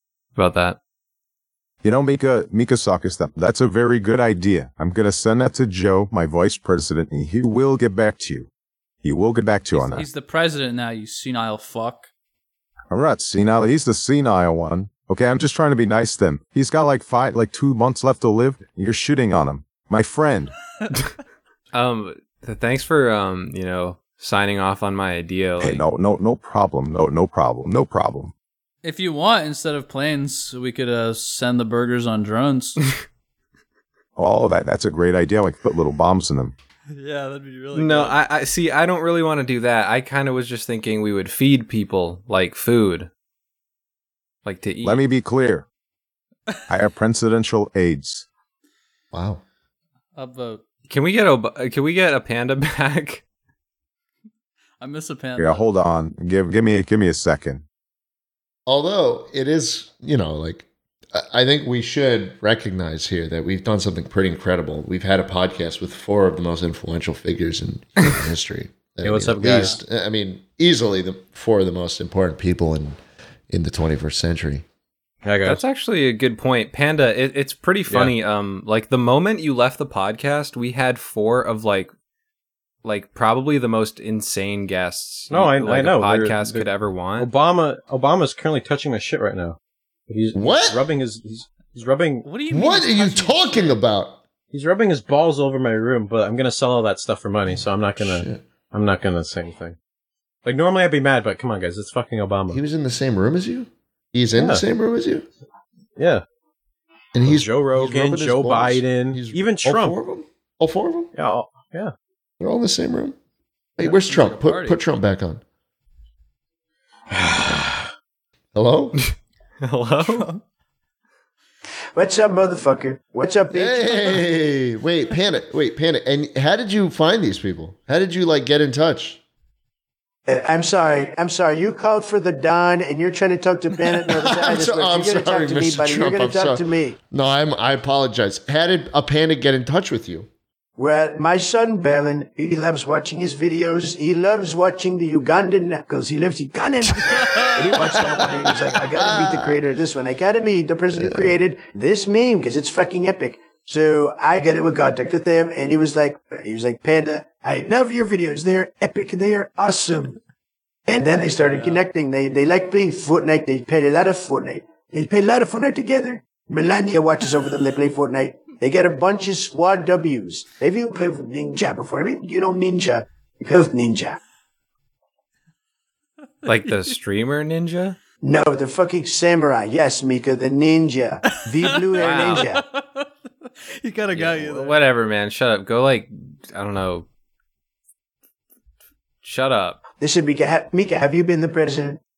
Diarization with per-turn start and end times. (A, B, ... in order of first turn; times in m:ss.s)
0:00.4-0:00.8 A
0:01.8-0:08.5 B
0:09.0-0:10.1 B
0:09.7-0:12.1 C
0:12.9-0:20.5 B
0:21.7-0:25.8 A
0:25.6-0:28.3 B
0:28.8-0:32.8 C
0:34.2-0:36.5 B
0:36.9-0:38.2 C
0:37.7-0:43.1 A
0:44.4-0:45.0 A
0:44.8-0:45.6 B
0:46.7-0:48.2 B
0:49.1-0:49.4 D
0:50.1-0:50.6 C
0:50.9-0:53.2 A
0:54.8-0:55.7 C
0:55.4-0:57.6 B
0:58.7-1:13.0 D
1:09.0-1:09.8 E
1:13.5-1:14.6 D
1:15.2-1:15.6 E
1:15.4-1:21.9 A
1:17.9-1:18.1 E
1:22.8-1:27.3 A
1:25.3-1:26.7 E
1:27.2-1:32.3 E
1:30.3-1:30.8 D
1:32.2-1:33.8 C
1:32.5-1:34.2 D
1:34.5-1:39.8 E
1:38.0-1:38.4 D
1:40.4-1:42.6 E
1:42.5-1:45.2 D
1:44.3-1:44.6 E
1:46.0-1:46.2 E
1:47.1-1:51.1 D
1:47.2-1:50.0 E
1:51.1-1:51.9 E
1:52.4-1:53.2 D
1:53.8-1:55.4 D
1:53.8-1:54.8 C
1:58.5-1:59.0 D
1:59.6-2:00.3 A
2:00.0-2:00.4 C
2:02.0-2:04.2 F
2:03.5-2:09.2 D
2:10.2-2:17.0 F
2:14.1-2:20.3 D
2:20.8-2:40.2 F
2:27.3-2:27.9 C
2:27.7-2:29.6 D
2:30.9-2:31.4 D
2:40.9-2:54.2 F
2:56.4-2:58.0 A
2:56.5-2:57.0 C
2:58.2-3:02.6 F
3:01.2-3:04.8 C
3:02.0-3:02.5 A
3:04.1-3:07.1 A
3:09.2-3:09.8 A
3:10.0-3:12.0 F